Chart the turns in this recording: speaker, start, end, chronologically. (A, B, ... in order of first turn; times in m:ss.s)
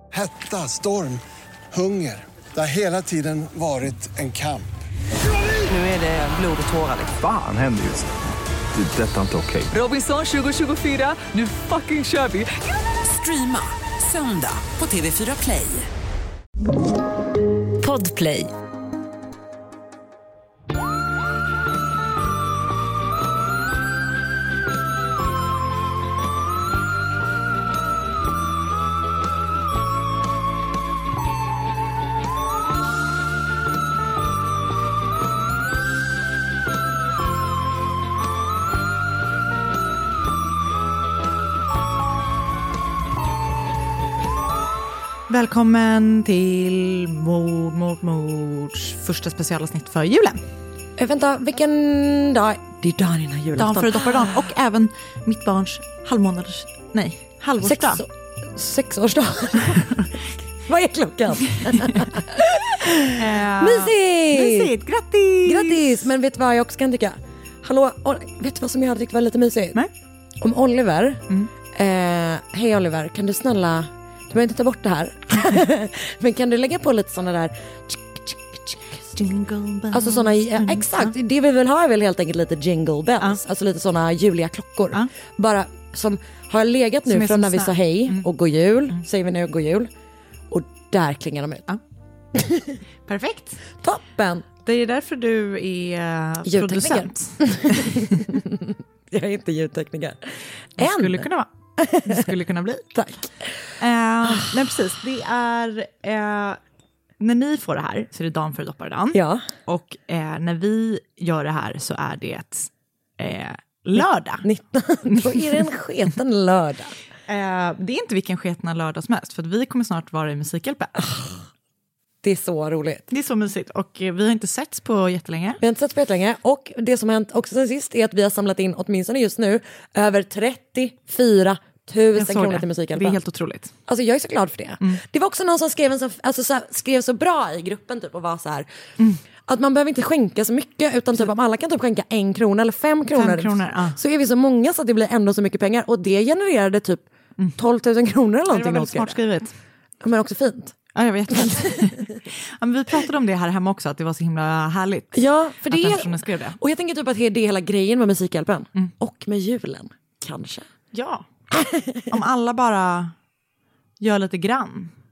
0:00.1-0:04.7 A
0:05.7-0:07.2 B
0:07.2-0:08.1 C
0:08.7-0:09.7 C
0:09.7-0:15.9 B
0:17.8-0:18.5 B
0:45.3-0:50.4 D
0:51.0-0:54.4 E
0:53.6-0:58.0 D
0:57.6-1:00.1 E
1:00.6-1:04.7 E
1:01.7-1:02.0 D
1:03.1-1:06.0 D
1:05.4-1:09.8 E
1:10.4-1:19.2 E
1:19.1-1:21.1 D
1:19.9-1:29.9 E
1:27.1-1:28.3 D
1:30.5-1:31.6 E
1:32.3-1:32.8 E
1:33.0-1:33.6 D
1:33.8-1:34.4 E
1:34.6-1:38.3 D
1:36.4-1:41.2 E
1:40.8-1:41.5 D
1:41.8-1:42.3 E
1:42.0-1:42.9 D
1:42.9-1:43.3 E
1:43.8-1:46.6 D
1:47.2-1:54.5 D
1:49.1-1:49.4 E
1:54.4-1:56.9 E
1:55.0-1:55.6 D
1:57.3-2:01.1 D
2:01.0-2:01.4 E
2:02.2-2:03.1 E
2:03.1-2:05.6 D
2:05.6-2:13.2 E
2:12.2-2:13.7 D
2:13.9-2:18.7 E
2:19.4-2:27.0 E
2:23.1-2:24.0 D
2:27.6-2:29.2 E
2:28.5-2:29.5 D
2:30.0-2:30.8 E
2:30.9-2:36.6 D
2:31.3-2:31.9 E
2:35.1-2:40.7 E
2:40.9-2:41.2 D
2:41.5-2:42.2 E
2:42.1-2:43.1 D
2:44.0-2:44.9 D